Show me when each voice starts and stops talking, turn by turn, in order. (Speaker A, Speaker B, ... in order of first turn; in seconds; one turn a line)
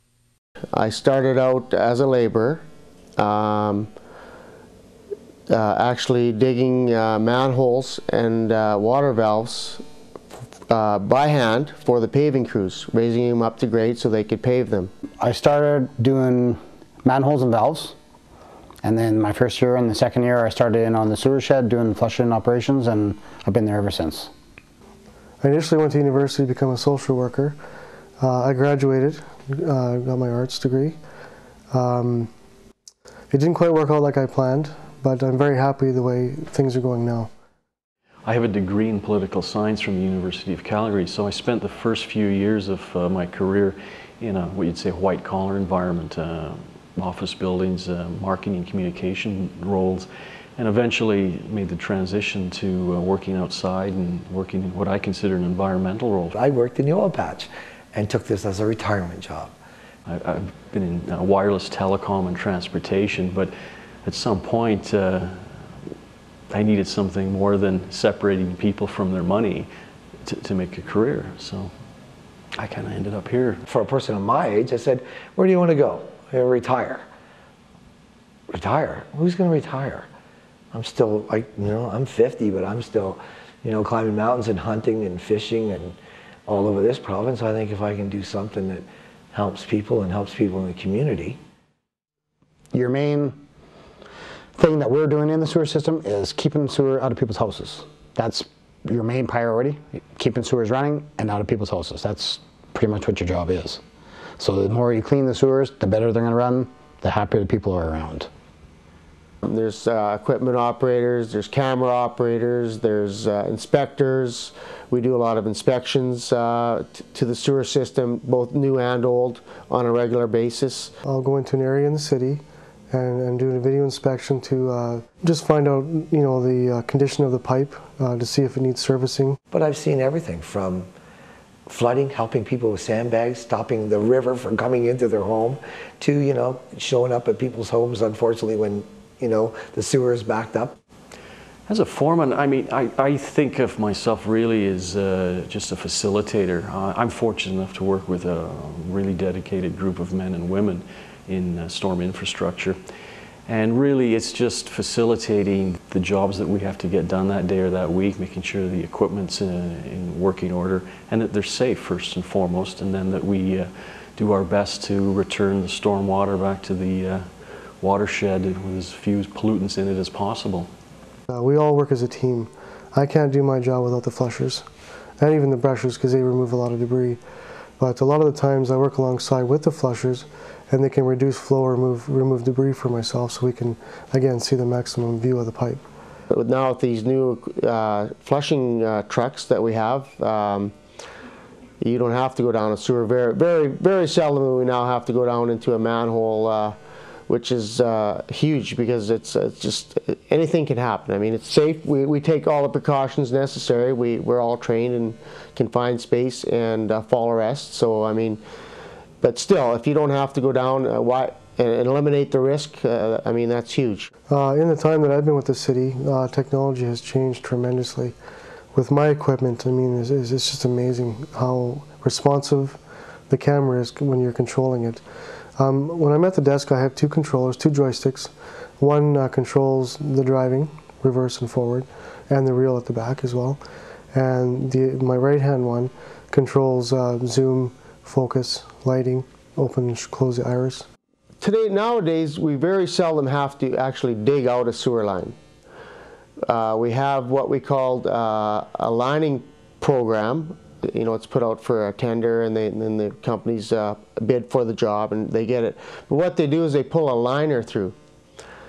Speaker A: 0.7-2.6
Speaker A: 3.2-3.9
Speaker A: 5.5-9.8
Speaker A: 10.7-14.9
Speaker B: 15.2-17.9
Speaker B: 18.8-24.3
Speaker C: 25.4-27.6
Speaker C: 28.2-31.0
Speaker C: 31.7-32.3
Speaker C: 33.3-37.3
Speaker D: 38.2-50.1
Speaker D: 50.6-56.3
Speaker E: 56.3-59.5
Speaker D: 60.1-63.5
Speaker D: 64.0-65.7
Speaker D: 66.5-69.7
Speaker D: 70.2-71.7
Speaker D: 72.6-73.6
Speaker E: 73.7-77.0
Speaker E: 78.5-80.0
Speaker E: 80.7-86.0
Speaker E: 86.5-91.4
Speaker B: 92.7-93.4
Speaker B: 94.5-103.8
Speaker B: 104.4-108.3
Speaker A: 109.4-120.9
Speaker C: 121.0-129.4
Speaker E: 129.5-130.9
Speaker E: 131.7-140.8
Speaker D: 141.7-152.8
Speaker D: 153.5-167.2
Speaker D: 167.8-170.7
Speaker C: 171.3-174.7
Speaker C: 175.2-177.2
Speaker C: 177.8-185.8
Speaker A: 186.3-190.7
Speaker A: 191.8-196.7
Speaker A: 197.3-208.4
Speaker A: 209.2-214.1
Speaker C: 214.3-218.1
Speaker C: 218.7-225.0
Speaker C: 225.6-233.6
Speaker C: 234.1-240.8
Speaker A: 241.4-245.3
Speaker A: 246.5-257.9